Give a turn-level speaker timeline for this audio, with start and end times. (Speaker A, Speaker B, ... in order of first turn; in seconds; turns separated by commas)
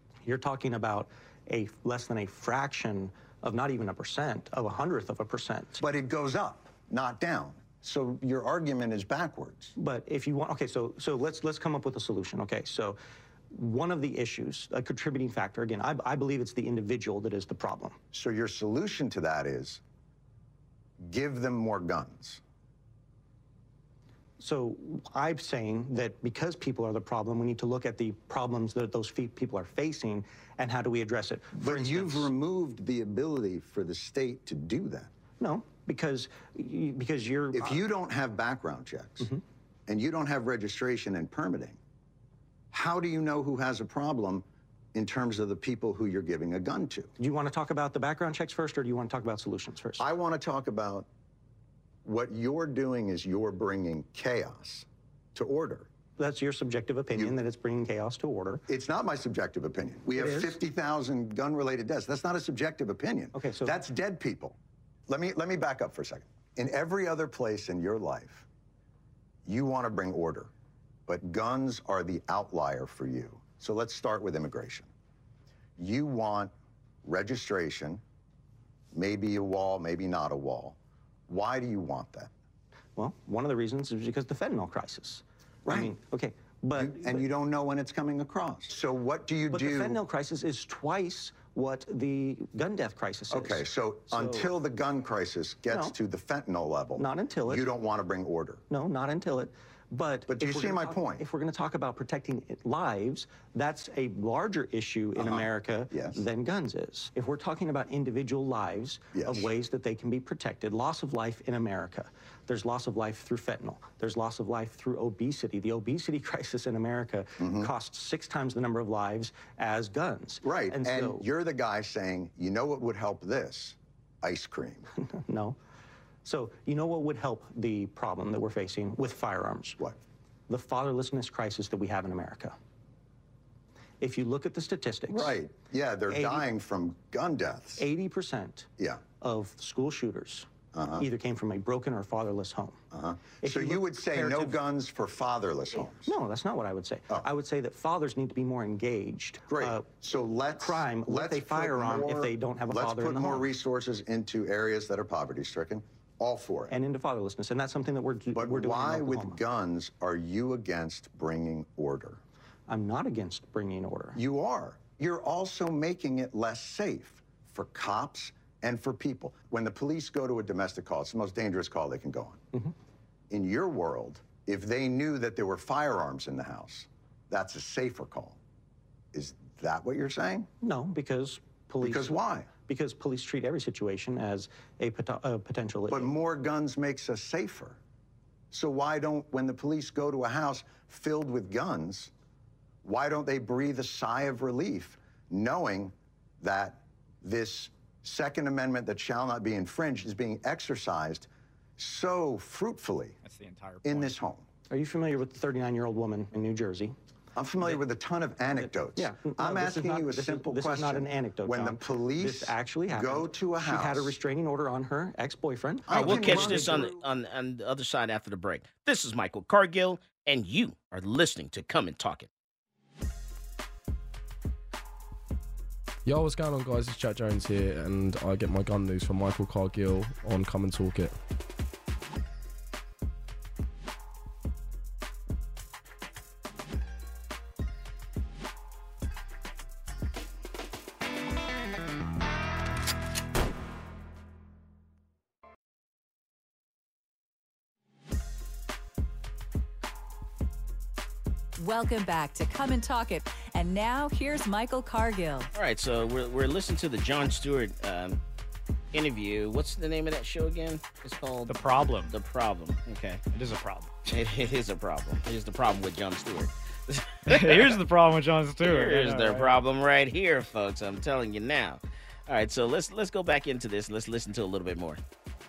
Speaker A: 0.2-5.8, Speaker B: 5.8-9.7, Speaker A: 9.8-13.0, Speaker A: 13.5-17.9, Speaker B: 18.1-19.8, Speaker B: 21.0-22.4, Speaker A: 24.4-32.3, Speaker B: 31.5-35.1, Speaker A: 35.4-37.8, Speaker B: 37.5-39.3, Speaker B: 39.9-41.8, Speaker B: 42.7-47.1, Speaker A: 47.2-50.0, Speaker B: 50.0-51.0, Speaker B: 52.0-55.9, Speaker A: 56.2-58.6, Speaker B: 57.1-57.4, Speaker B: 58.7-64.6, Speaker A: 60.1-60.5, Speaker A: 63.3-63.8, Speaker B: 65.1-68.4, Speaker B: 69.5-70.5, Speaker B: 71.1-74.9, Speaker B: 75.8-76.5, Speaker B: 77.0-78.0, Speaker B: 78.9-80.8, Speaker B: 81.3-82.3, Speaker A: 83.0-87.2, Speaker B: 85.7-85.9, Speaker B: 86.8-90.0, Speaker A: 89.5-94.5, Speaker B: 93.3-98.6, Speaker A: 95.7-95.9, Speaker A: 96.9-97.7, Speaker A: 98.7-121.2, Speaker B: 100.3-101.2, Speaker B: 105.2-106.2, Speaker B: 109.1-109.5, Speaker B: 117.4-117.7, Speaker B: 120.4-124.8, Speaker A: 125.0-125.6, Speaker A: 126.2-129.8, Speaker A: 130.5-132.6, Speaker A: 134.0-135.4, Speaker B: 135.1-137.8, Speaker A: 136.1-136.4, Speaker A: 137.8-142.8, Speaker B: 138.8-139.0, Speaker B: 140.7-141.1, Speaker B: 142.9-146.1, Speaker A: 143.3-144.6, Speaker A: 145.8-149.9, Speaker B: 149.5-156.7, Speaker A: 150.6-153.5, Speaker A: 156.7-159.4, Speaker B: 158.3-162.2, Speaker A: 162.7-164.2, Speaker B: 164.2-172.4, Speaker B: 173.3-178.4, Speaker B: 179.1-180.5, Speaker A: 180.6-186.1, Speaker B: 181.8-182.5, Speaker B: 185.9-187.8, Speaker B: 188.5-192.1, Speaker B: 192.8-203.2, Speaker C: 203.2-204.1, Speaker B: 203.8-204.4, Speaker A: 204.7-206.9, Speaker B: 207.3-214.2, Speaker A: 208.5-216.9, Speaker B: 215.9-217.0, Speaker D: 215.9-222.3, Speaker E: 226.0-231.2, Speaker F: 251.6-255.5, Speaker D: 255.5-258.2, Speaker D: 258.9-261.6, Speaker C: 261.5-262.1, Speaker D: 262.1-263.2, Speaker C: 263.3-264.2, Speaker D: 264.1-267.8, Speaker C: 267.3-269.6, Speaker D: 268.6-275.0